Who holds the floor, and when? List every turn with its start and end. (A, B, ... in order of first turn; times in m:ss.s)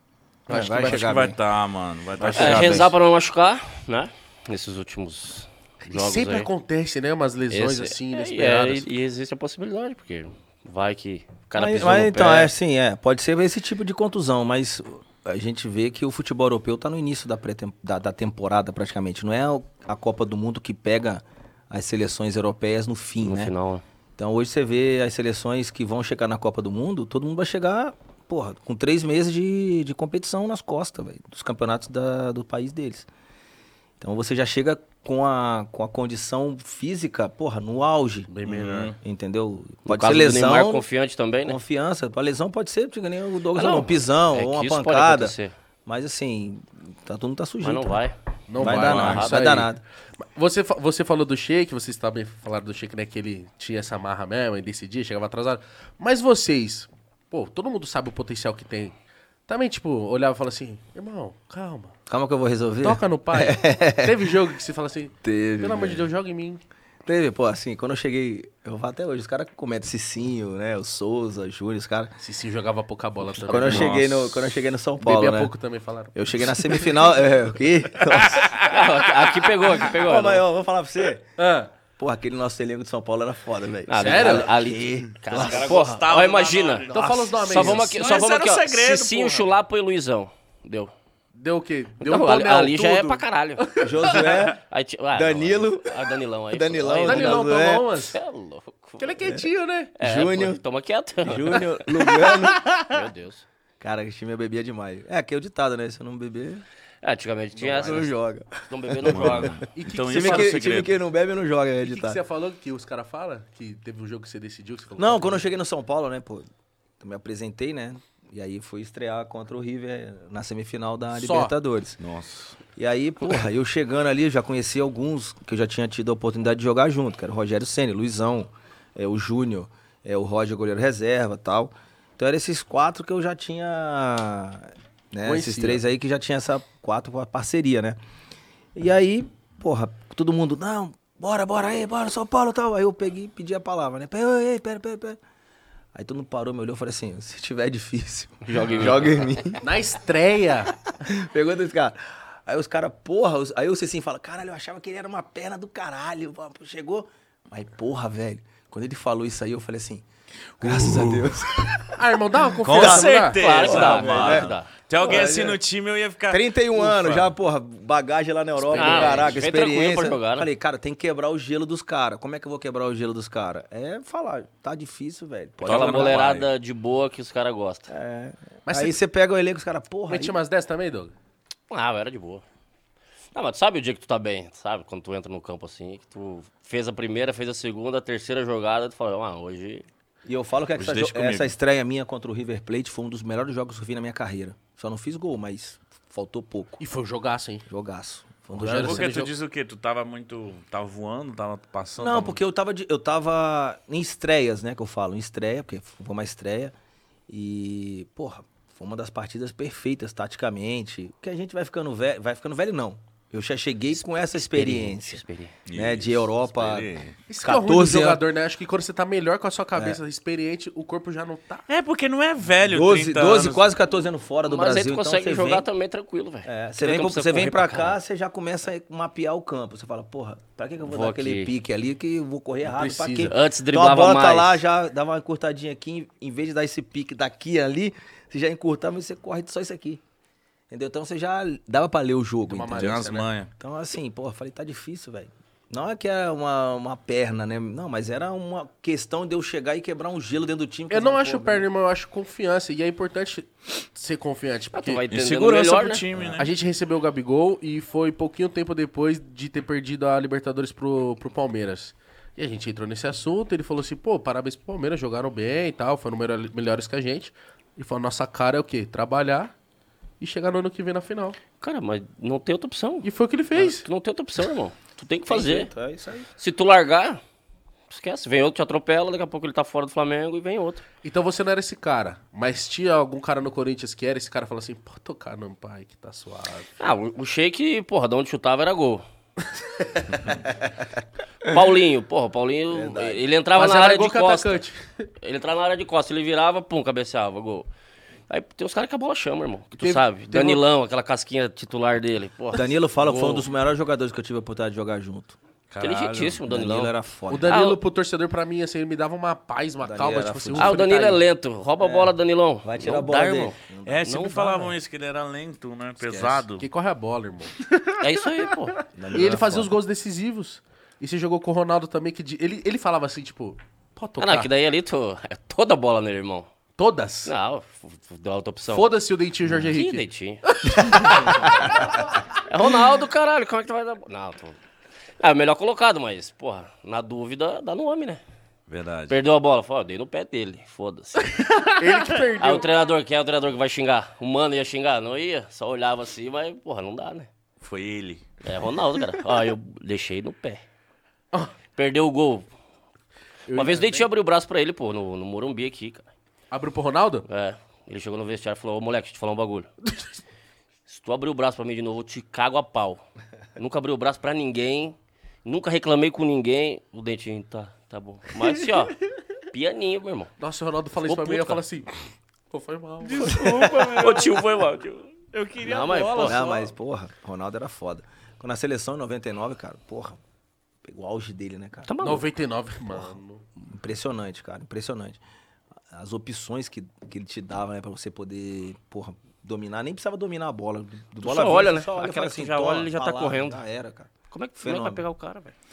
0:00.5-0:01.4 A
0:00.5-0:01.0 B
0:00.5-0:02.9 C
0:02.2-0:02.9 A
0:02.3-0:06.5 D
0:05.8-0:08.9 B
0:07.5-0:12.5 D
0:11.5-0:23.5 A
0:23.2-0:23.8 D
0:24.2-0:33.1 A
0:34.0-0:38.3 A
0:38.3-0:38.9 B
0:38.5-0:39.0 C
0:39.0-0:40.8 A
0:39.8-0:41.6 D
0:41.4-0:45.3 A
0:43.5-0:45.5 D
0:45.8-0:48.0 A
0:47.6-0:48.1 D
0:48.5-0:58.9 B
0:48.6-0:49.8 A
0:48.7-0:49.2 C
0:49.0-0:49.3 D
0:59.5-1:01.9 B
1:02.1-1:04.4 A
1:02.8-1:06.6 B
1:05.2-1:06.1 A
1:07.0-1:12.1 A
1:12.2-1:14.0 B
1:13.3-1:15.5 A
1:13.6-1:14.5 C
1:15.0-1:16.9 B
1:16.1-1:18.6 A
1:18.2-1:18.7 C
1:18.6-1:20.4 D
1:19.8-1:21.3 A
1:21.4-1:21.7 B
1:22.0-1:25.9 A
1:23.9-1:30.9 D
1:24.0-1:24.5 B
1:25.3-1:29.5 C
1:26.9-1:27.9 B
1:31.3-1:34.2 B
1:32.0-1:37.6 D
1:33.8-1:34.6 A
1:35.1-1:37.9 A
1:37.0-1:38.2 B
1:38.1-1:39.2 D
1:39.0-1:39.9 B
1:40.0-1:43.4 D
1:40.0-1:40.6 A
1:41.2-1:42.7 A
1:43.8-1:46.6 A
1:47.0-1:48.2 D
1:47.6-1:52.2 A
1:48.7-1:49.6 D
1:49.1-1:50.9 C
1:49.7-1:50.6 B
1:51.8-1:55.4 B
1:55.0-1:56.5 A
1:57.0-2:02.0 A
2:01.1-2:01.5 B
2:02.0-2:02.6 C
2:02.8-2:18.0 A
2:15.2-2:15.8 B
2:18.7-2:25.2 A
2:25.9-2:29.6 A
2:28.5-2:29.4 D
2:29.6-2:30.7 B
2:30.9-2:40.0 A
2:40.6-2:42.0 A
2:40.6-2:41.2 C
2:41.9-2:43.7 B
2:42.6-2:45.6 A
2:42.6-2:47.3 C
2:43.3-2:44.7 D
2:46.3-2:56.2 A
2:48.6-2:49.3 B
2:48.7-2:50.5 D
2:55.6-2:56.5 C
2:55.6-2:57.9 D
2:57.9-3:00.4 A
2:58.6-2:59.0 B
3:00.1-3:01.1 B
3:01.7-3:02.4 D
3:03.3-3:09.8 D
3:10.2-3:16.8 A
3:10.8-3:11.5 C
3:16.8-3:17.7 B
3:17.7-3:19.1 A
3:18.5-3:19.3 B
3:18.8-3:22.4 C
3:22.0-3:26.7 A
3:27.3-3:38.2 A
3:34.0-3:35.5 D
3:35.7-3:37.2 C
3:37.3-3:41.6 B
3:39.7-3:40.0 A
3:41.7-3:43.7 C
3:42.6-3:45.7 A
3:44.5-3:48.0 D
3:46.4-4:00.0 A
3:50.9-3:51.5 D
3:52.7-3:53.3 B
3:53.3-3:54.6 D
4:00.7-4:03.0 A
4:02.5-4:03.3 B
4:02.7-4:03.5 C
4:03.6-4:11.7 A
4:10.9-4:15.0 B
4:14.7-4:16.0 D
4:15.1-4:16.5 C
4:16.4-4:29.5 B
4:30.2-4:31.4 B
4:31.6-4:35.7 D
4:33.0-4:33.8 B
4:35.3-4:36.3 A
4:36.4-4:37.2 D
4:37.9-4:40.8 D
4:41.0-4:46.7 B
4:46.8-4:49.0 D
4:51.4-4:54.6 D
4:52.7-4:53.2 A
4:53.5-4:55.1 B
4:55.2-4:57.7 D
4:58.3-5:03.4 D
4:59.8-5:00.6 B
5:02.5-5:05.4 A
5:05.7-5:06.4 C
5:05.8-5:06.9 D
5:06.4-5:07.5 A
5:07.3-5:11.2 B
5:07.4-5:07.8 D
5:09.8-5:10.8 A
5:10.6-5:14.7 D
5:11.8-5:14.1 A
5:13.8-5:16.6 C
5:16.0-5:16.4 A
5:16.1-5:17.6 B
5:18.0-5:18.8 D
5:18.9-5:19.7 A
5:19.1-5:24.5 B
5:24.2-5:26.5 D
5:26.8-5:27.3 B
5:27.2-5:28.9 D
5:28.7-5:31.5 B
5:29.7-5:31.4 D
5:32.4-5:34.6 D
5:35.2-5:38.2 D
5:38.7-5:39.2 C
5:39.1-5:41.7 D
5:41.4-5:42.7 B
5:42.4-5:47.3 D
5:47.6-5:48.2 C
5:48.4-5:50.6 D
5:51.7-5:52.4 D
5:53.5-5:54.1 B
5:53.5-5:56.1 D
5:56.5-5:57.2 B
5:57.3-5:59.7 D
6:00.9-6:03.0 D
6:03.6-6:09.0 D
6:09.5-6:10.3 D
6:10.4-6:12.0 B
6:11.0-6:11.6 D
6:12.5-6:13.3 B
6:13.0-6:14.6 C
6:13.2-6:16.4 D
6:15.3-6:16.6 C
6:16.2-6:20.2 A
6:20.8-6:21.9 A
6:21.9-6:22.3 D
6:22.0-6:23.4 B
6:23.6-6:25.2 A
6:25.9-6:35.0 A
6:31.2-6:33.6 D
6:34.3-6:35.5 D